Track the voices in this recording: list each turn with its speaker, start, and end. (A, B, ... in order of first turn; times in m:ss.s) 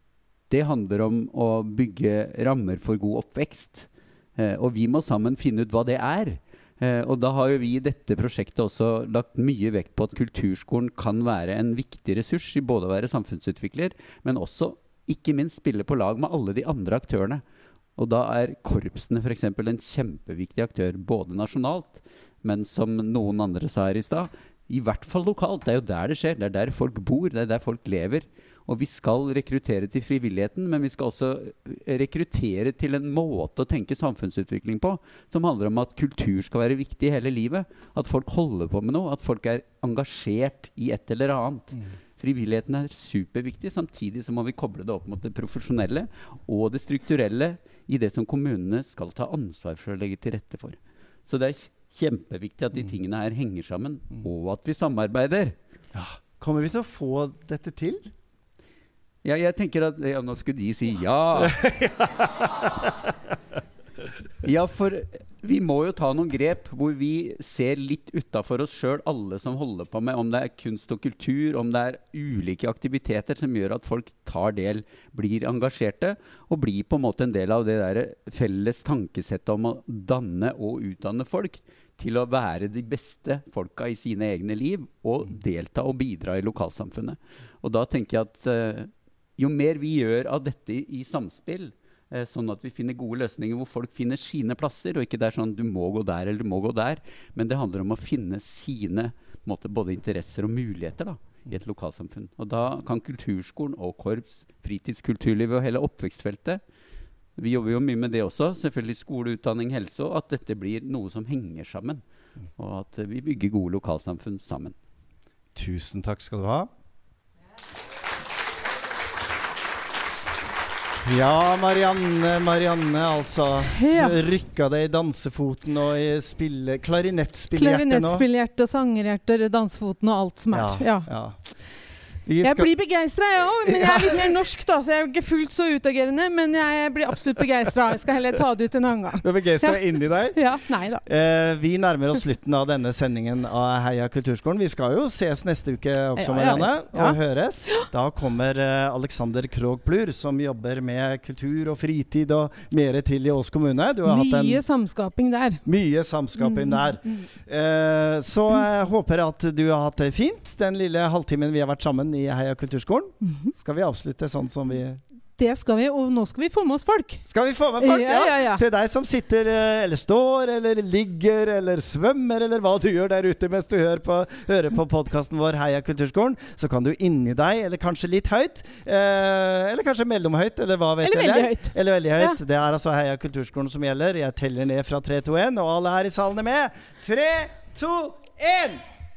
0:00.5-0:17.4 A
0:18.0-0:55.5 A
0:55.9-0:58.1 B
0:59.2-1:01.6 A
1:01.4-1:02.1 B
1:04.4-1:46.6 A
1:47.4-1:52.0 A
1:52.6-1:54.7 A
1:55.5-1:56.7 B
2:01.0-2:08.2 B
2:03.7-2:04.2 C
2:07.5-2:11.1 C
2:10.5-2:11.4 B
2:12.2-2:12.7 B
2:12.4-2:21.0 C
2:13.7-2:14.3 B
2:19.2-2:34.6 B
2:26.2-2:27.9 C
2:34.0-2:35.6 C
2:35.6-2:45.0 B
2:36.4-2:37.3 C
2:43.2-2:43.5 C
2:45.4-2:47.2 C
2:47.3-3:08.8 B
2:47.8-2:48.6 C
3:01.0-3:02.4 C